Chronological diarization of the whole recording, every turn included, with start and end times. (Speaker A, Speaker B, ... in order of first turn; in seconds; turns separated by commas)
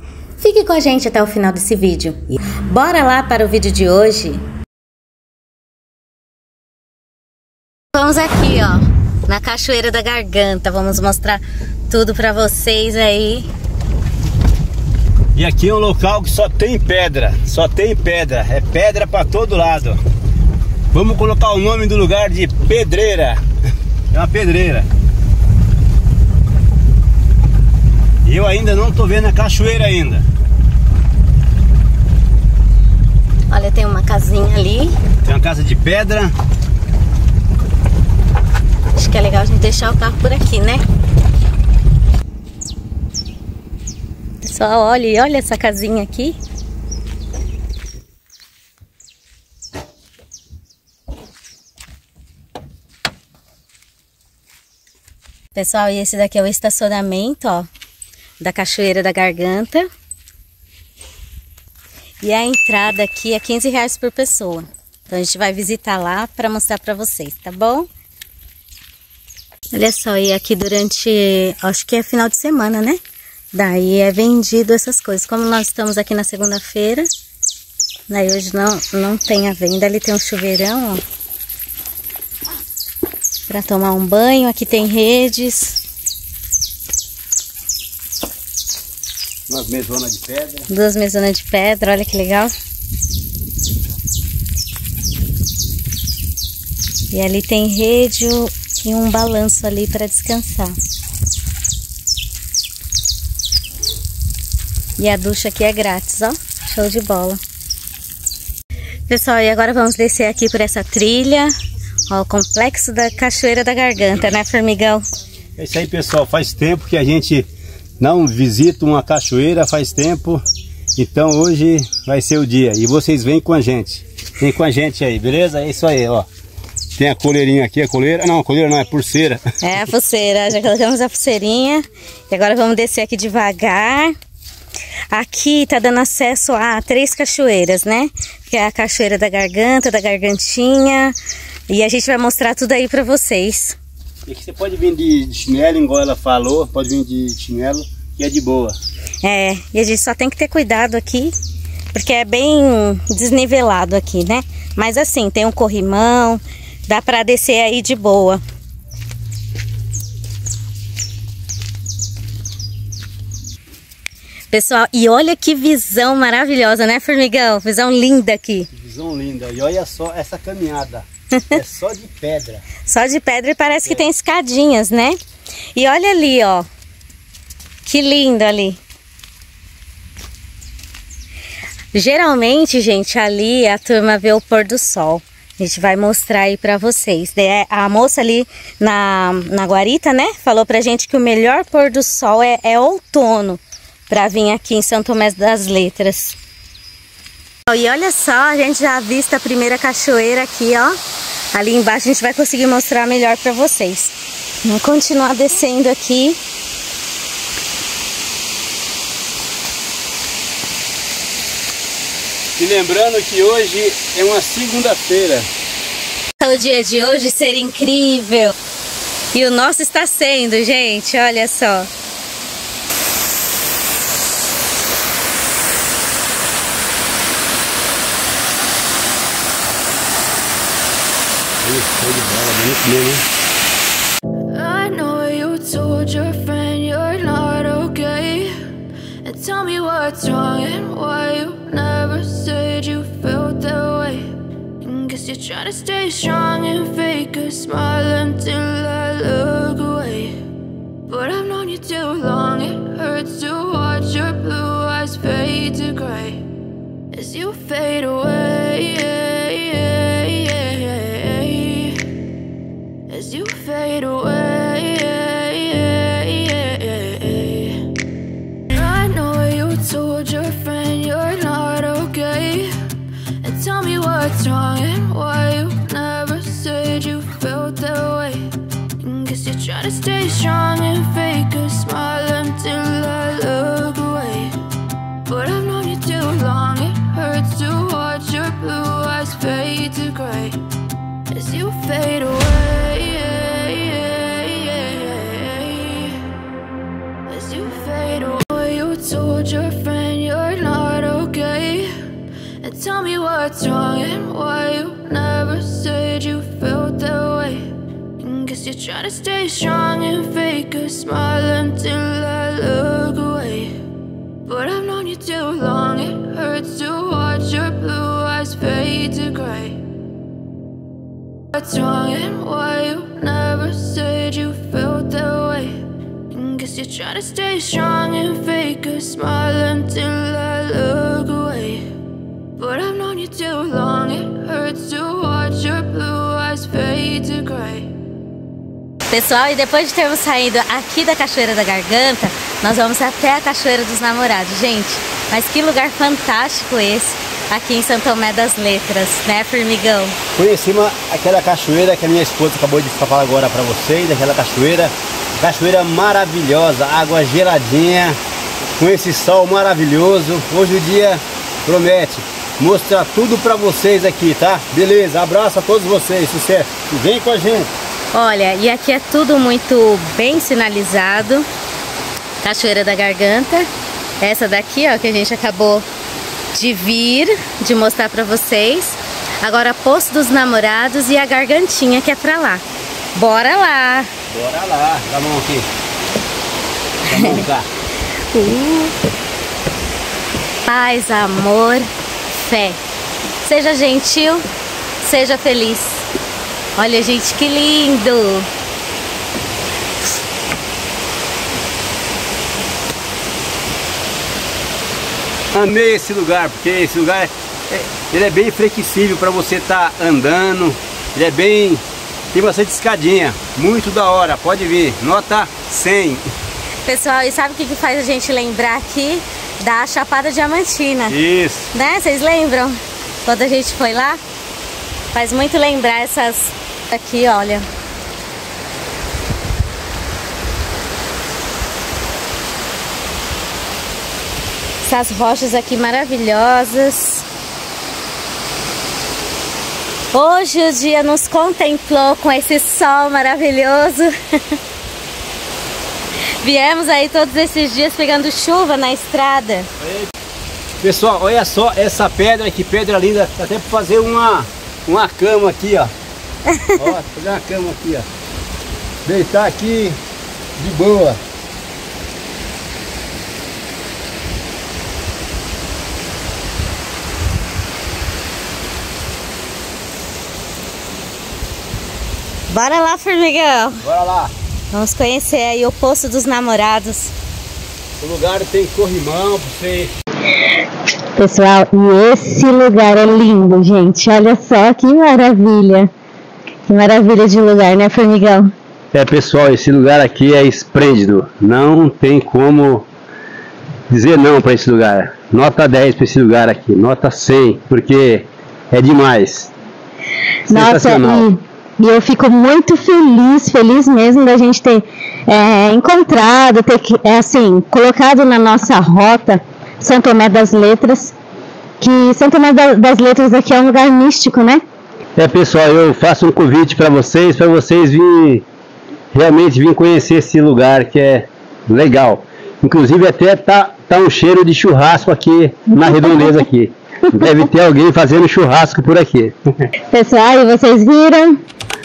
Speaker A: 0.4-4.4, Speaker A: 7.9-13.5, Speaker B: 15.3-20.0, Speaker B: 20.9-23.4, Speaker B: 24.1-24.9, Speaker B: 28.2-30.2, Speaker A: 33.5-35.0, Speaker B: 35.2-36.3, Speaker A: 38.9-40.8, Speaker A: 44.4-46.4, Speaker A: 55.5-57.7, Speaker A: 58.4-59.9, Speaker A: 62.2-67.9, Speaker A: 69.7-73.0, Speaker A: 73.5-77.1, Speaker A: 78.1-81.0, Speaker A: 83.5-85.8, Speaker B: 89.5-90.7, Speaker A: 90.7-92.5, Speaker A: 97.1-100.8, Speaker A: 105.0-107.4, Speaker A: 109.1-111.5, Speaker A: 112.1-115.0, Speaker B: 115.6-117.5, Speaker B: 118.0-120.4, Speaker B: 121.0-126.3, Speaker B: 127.0-129.4, Speaker A: 129.6-134.1, Speaker A: 135.1-141.2, Speaker A: 141.7-143.8, Speaker B: 144.2-148.8, Speaker A: 149.2-151.3, Speaker A: 151.9-158.4, Speaker A: 164.5-168.7, Speaker B: 168.7-172.6, Speaker A: 171.3-171.6, Speaker A: 172.8-175.2, Speaker A: 175.7-176.7, Speaker A: 177.8-178.8, Speaker A: 181.9-196.4, Speaker A: 197.7-200.9, Speaker A: 201.5-206.4, Speaker B: 212.6-215.5, Speaker A: 216.4-218.5, Speaker A: 219.3-221.9, Speaker B: 231.6-233.2, Speaker C: 234.5-238.6, Speaker C: 239.2-250.4, Speaker C: 251.1-256.5, Speaker C: 257.1-262.1, Speaker C: 263.1-267.9, Speaker C: 268.7-272.9, Speaker C: 273.4-284.6, Speaker C: 285.2-290.6, Speaker C: 291.3-296.3, Speaker C: 297.3-302.1, Speaker C: 302.6-313.8, Speaker C: 314.4-319.8, Speaker C: 321.5-331.9, Speaker C: 332.6-337.9, Speaker A: 339.1-350.1, Speaker B: 350.3-358.2, Speaker B: 358.8-367.7, Speaker A: 368.1-371.4, Speaker A: 372.4-373.7, Speaker A: 374.2-375.9, Speaker A: 376.5-382.6, Speaker A: 383.1-384.1, Speaker B: 384.3-385.7, Speaker B: 387.1-387.7, Speaker A: 387.1-387.4, Speaker A: 388.3-388.9, Speaker A: 390.6-392.8, Speaker A: 393.4-394.4, Speaker A: 395.0-396.1, Speaker A: 396.8-398.5, Speaker B: 405.5-416.2, Speaker A: 416.8-421.1, Speaker B: 421.1-421.7, Speaker A: 421.7-424.2, Speaker A: 425.1-427.7, Speaker A: 434.8-437.3, Speaker A: 440.1-444.6, Speaker A: 446.4-449.7, Speaker B: 449.8-450.1, Speaker B: 450.8-455.9, Speaker A: 456.5-456.8, Speaker B: 456.8-458.1, Speaker B: 459.0-460.0, Speaker B: 460.6-461.2, Speaker A: 472.5-473.8, Speaker B: 473.8-474.3, Speaker A: 474.7-477.1, Speaker B: 478.0-479.9, Speaker A: 481.1-485.9, Speaker A: 486.7-488.5, Speaker B: 488.9-492.9, Speaker B: 493.9-499.5, Speaker A: 500.5-511.1, Speaker B: 500.5-501.3, Speaker A: 511.8-514.6, Speaker B: 515.1-518.4, Speaker B: 519.1-529.3, Speaker A: 525.8-526.5, Speaker A: 529.9-531.4